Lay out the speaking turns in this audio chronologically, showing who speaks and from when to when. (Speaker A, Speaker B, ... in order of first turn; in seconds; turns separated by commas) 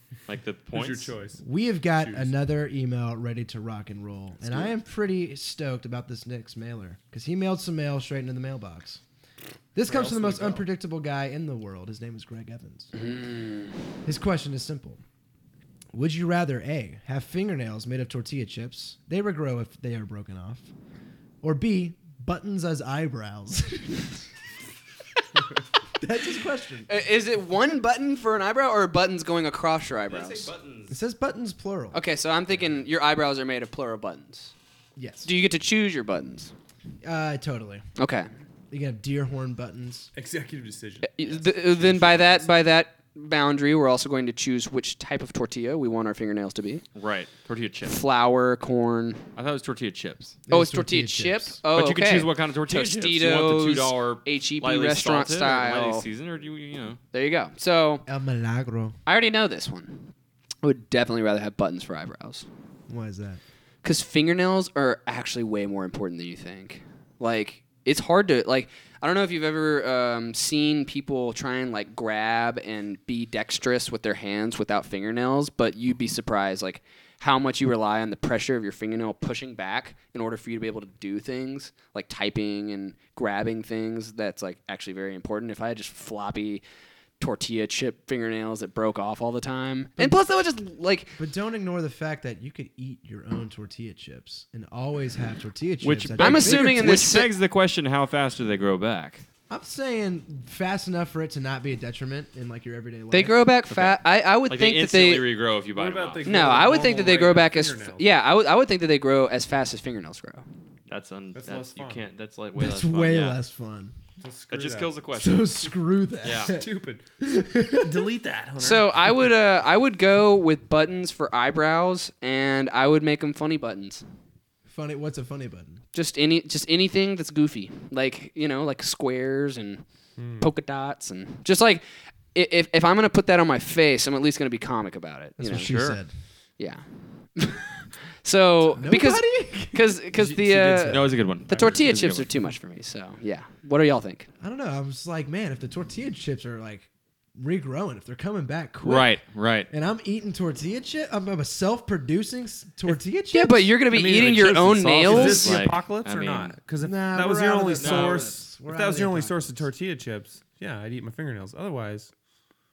Speaker A: 0.3-1.1, Speaker B: 0.7-1.4, Speaker C: 1.4-9.0, Speaker B: 1.9-2.3, Speaker C: 9.7-12.9, Speaker B: 9.9-10.6, Speaker D: 12.9-13.8, Speaker C: 14.0-15.0, Speaker C: 15.9-20.7, Speaker C: 21.4-24.2, Speaker C: 25.9-26.9, Speaker D: 26.9-30.5, Speaker A: 30.1-30.9, Speaker C: 30.9-32.0, Speaker D: 31.9-34.5, Speaker C: 35.0-35.3, Speaker D: 35.2-36.5, Speaker C: 37.0-37.8, Speaker D: 38.0-38.3, Speaker C: 38.7-40.1, Speaker B: 40.1-42.5, Speaker D: 41.1-46.8, Speaker A: 46.9-48.0, Speaker D: 47.8-49.2, Speaker A: 49.4-50.4, Speaker C: 50.5-51.6, Speaker D: 50.5-56.0, Speaker A: 51.7-57.0, Speaker D: 57.1-58.0, Speaker C: 58.0-59.0, Speaker D: 59.0-60.1, Speaker D: 60.6-62.5, Speaker C: 62.9-63.4, Speaker D: 63.8-86.6, Speaker D: 87.2-91.2, Speaker C: 91.2-97.0, Speaker A: 95.8-99.2, Speaker D: 96.2-97.3, Speaker C: 99.5-103.4, Speaker D: 103.1-105.3, Speaker A: 103.7-106.5, Speaker B: 105.7-108.0, Speaker D: 106.2-110.4, Speaker A: 110.9-113.4, Speaker B: 111.3-112.0, Speaker C: 112.6-114.0, Speaker B: 114.2-114.9, Speaker A: 114.5-115.5, Speaker C: 115.1-116.7, Speaker A: 116.2-116.5, Speaker B: 116.4-117.0, Speaker C: 117.2-118.1, Speaker B: 117.6-119.1, Speaker D: 118.6-124.0, Speaker C: 124.7-125.8, Speaker D: 125.9-129.8, Speaker B: 130.2-130.5, Speaker D: 130.4-136.0, Speaker C: 135.4-136.1, Speaker D: 136.6-144.3, Speaker C: 138.7-139.9, Speaker B: 140.1-141.1, Speaker A: 140.8-142.3, Speaker C: 144.4-149.2, Speaker A: 148.8-149.7, Speaker C: 149.7-153.7, Speaker D: 153.3-155.6, Speaker B: 153.9-162.1, Speaker A: 154.0-156.6, Speaker C: 156.8-159.7, Speaker A: 157.8-158.3